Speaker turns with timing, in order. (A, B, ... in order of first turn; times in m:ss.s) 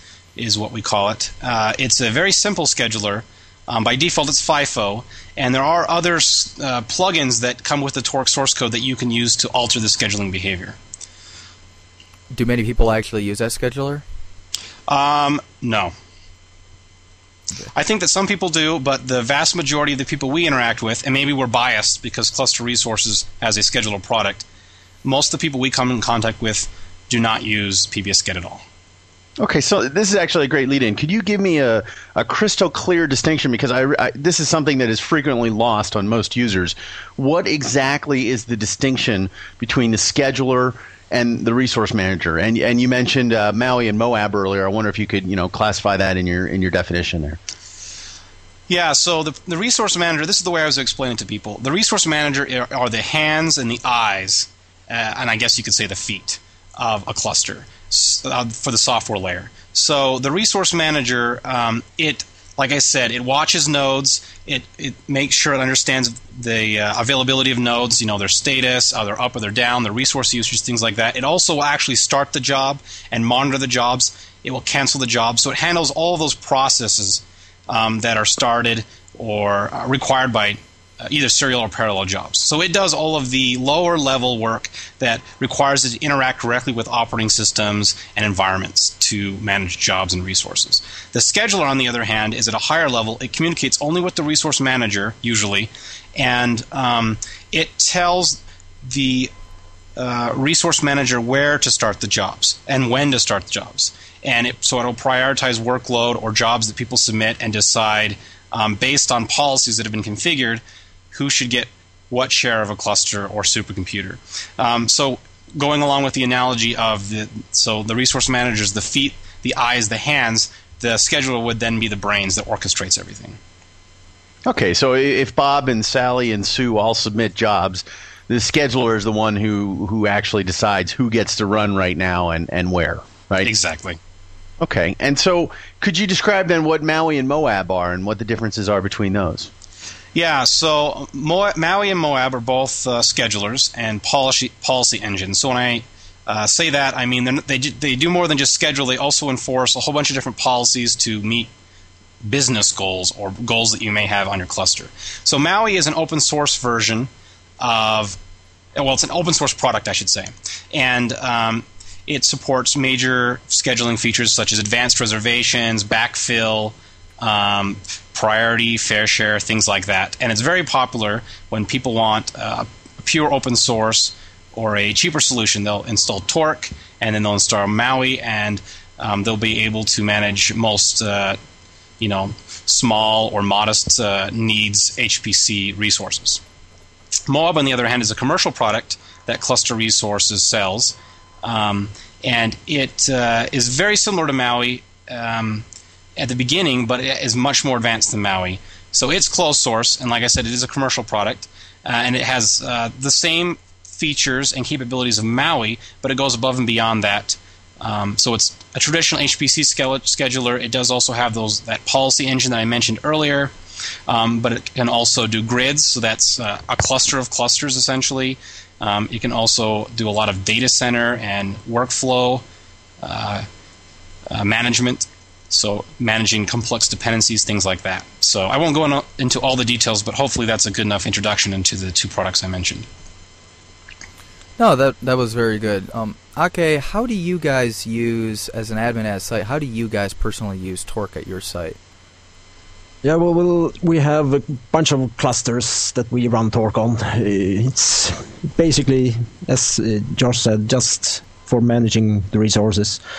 0:00.4-0:10.8 A
0:12.3-0:14.0 B
0:14.9-0:15.9 A
0:17.7-0:24.4 A
0:25.0-0:28.6 A
0:29.4-0:47.4 C
0:48.7-1:39.3 A
1:40.0-2:03.4 A
2:04.4-2:13.5 C
2:13.4-2:14.0 A
2:14.6-2:19.5 C
2:20.1-2:31.5 A
2:32.2-2:38.2 A
2:38.8-3:01.4 A
3:02.0-3:06.4 A
3:07.2-3:15.6 A
3:16.2-3:33.5 A
3:34.1-3:42.4 A
3:43.0-3:43.4 A
3:44.3-3:52.8 A
3:54.6-4:01.8 B
4:03.0-4:13.0 D